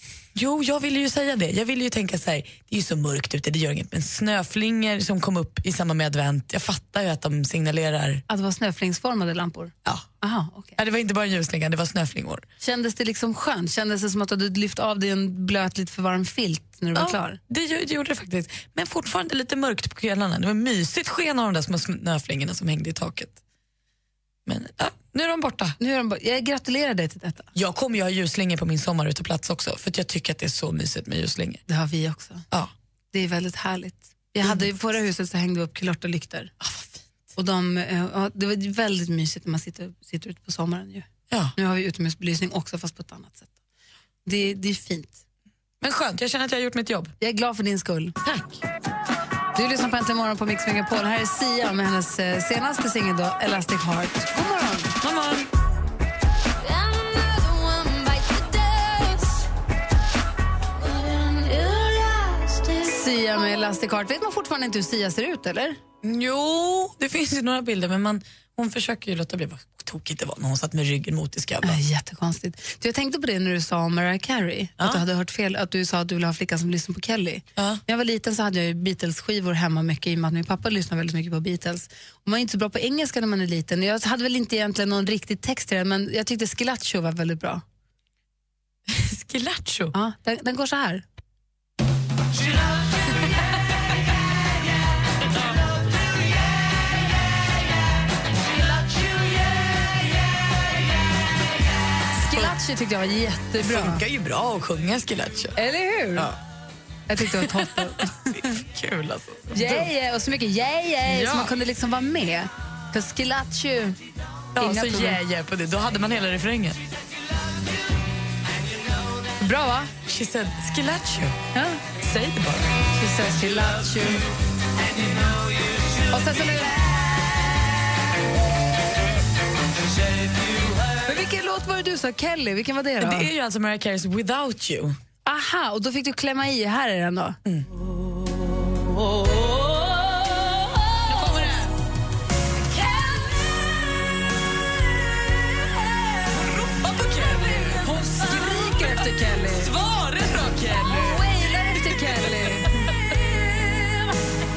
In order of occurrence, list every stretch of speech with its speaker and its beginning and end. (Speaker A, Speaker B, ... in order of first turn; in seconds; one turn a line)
Speaker A: 0.3-8.2
Speaker B: 8.3-10.8
Speaker A: 10.8-12.4
Speaker B: 12.6-17.4
Speaker A: 16.9-23.3
Speaker A: 24.4-25.8
Speaker B: 25.8-27.5
Speaker A: 27.5-31.6
Speaker B: 31.7-32.5
Speaker B: 33.1-36.5
Speaker A: 36.6-36.9
Speaker B: 37.3-43.5
Speaker A: 41.3-41.5
Speaker B: 44.2-45.2
Speaker A: 45.8-47.1
Speaker B: 47.2-48.2
Speaker A: 48.2-48.6
Speaker B: 49.5-55.0
Speaker A: 55.0-55.5
Speaker B: 56.7-59.3
Speaker B: 62.7-65.8
Speaker A: 66.0-71.8
Speaker B: 71.6-87.6
Speaker A: 88.9-89.9
Speaker B: 89.9-91.0
Speaker B: 102.2-104.0
Speaker A: 103.6-105.6
Speaker B: 105.5-106.3
Speaker B: 107.1-108.5
Speaker A: 107.2-109.9
Speaker B: 109.5-114.0
Speaker A: 111.0-111.5
Speaker B: 114.5-115.2
Speaker A: 114.5-116.8
Speaker B: 119.4-119.9
Speaker A: 120.0-121.4
Speaker A: 121.9-122.7
Speaker B: 122.9-124.3
Speaker B: 126.1-126.8
Speaker B: 131.1-133.3
Speaker A: 133.0-135.0
Speaker B: 135.2-137.4
Speaker A: 141.1-141.7
Speaker A: 145.7-151.3
Speaker B: 147.8-149.7
Speaker B: 150.8-152.7
Speaker A: 152.8-153.2